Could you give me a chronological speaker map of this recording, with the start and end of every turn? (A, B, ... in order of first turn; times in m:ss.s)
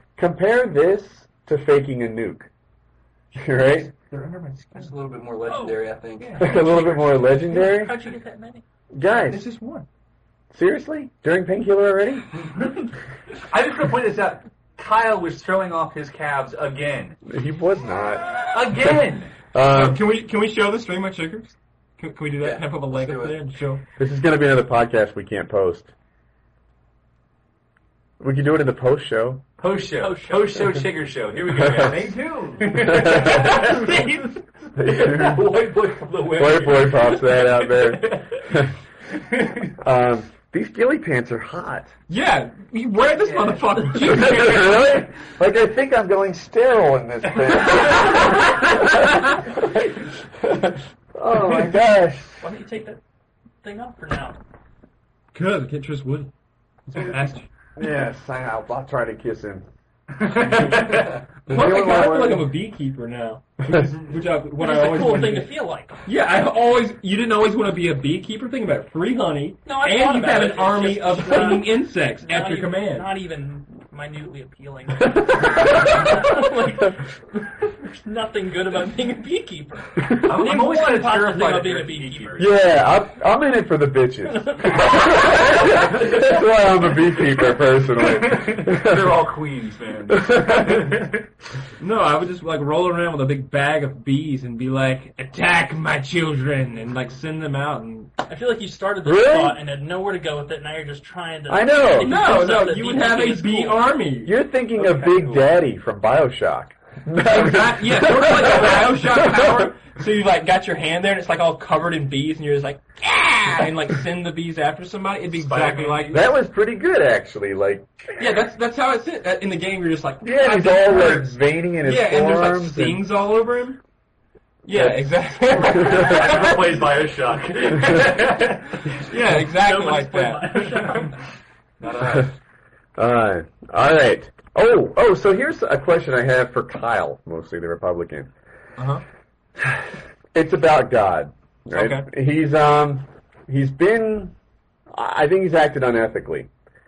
0:00.2-0:02.5 A
0:03.4-0:03.9 A
0:04.1-0:04.9 B
0:04.7-0:06.4 C
0:05.4-0:08.6 D
0:06.4-0:08.0 A
0:08.9-0:09.4 A
0:09.1-0:09.9 B
0:10.5-0:12.3 A
0:13.5-0:17.2 E
0:17.3-0:19.0 A
0:18.5-0:19.4 E
0:19.5-0:20.0 A
0:19.7-0:23.8 B
0:22.4-0:23.4 C
0:24.0-0:25.9 A
0:28.2-0:29.4 A
0:29.6-0:38.6 E
0:29.9-0:30.8 D
0:31.5-0:32.1 A
0:32.8-0:34.2 B
0:32.8-0:33.6 A
0:34.8-0:35.5 A
0:36.4-0:38.7 A
0:39.3-0:39.7 E
0:39.8-0:41.9 A
0:42.1-0:45.1 B
0:44.0-0:52.4 A
0:52.4-0:53.0 D
0:53.6-0:54.4 D
0:55.3-0:56.3 B
0:56.9-0:57.5 B
0:57.8-0:59.7 A
1:00.2-1:01.1 E
1:01.5-1:05.5 B
1:01.5-1:02.5 A
1:04.6-1:06.0 D
1:06.0-1:13.1 B
1:09.6-1:22.4 D
1:20.1-1:22.8 E
1:22.4-1:29.3 A
1:24.3-1:25.7 D
1:28.0-1:31.2 E
1:30.1-1:30.9 A
1:31.8-1:38.1 B
1:38.3-1:43.9 D
1:39.0-1:39.6 A
1:41.5-1:42.1 A
1:42.0-1:44.4 B
1:44.2-1:49.7 A
1:44.8-1:45.5 E
1:47.2-1:56.3 B
1:55.3-1:56.3 E
1:56.1-1:57.9 A
1:58.2-2:03.8 B
2:00.2-2:03.0 A
2:04.7-2:06.9 B
2:04.7-2:05.0 A
2:05.8-2:08.6 E
2:05.8-2:06.2 A
2:07.9-2:11.0 B
2:09.5-2:11.2 D
2:11.8-2:12.4 E
2:12.0-2:12.3 A
2:13.0-2:18.3 A
2:18.8-2:19.0 B
2:19.6-2:24.3 A
2:21.7-2:22.1 B
2:24.9-2:26.5 A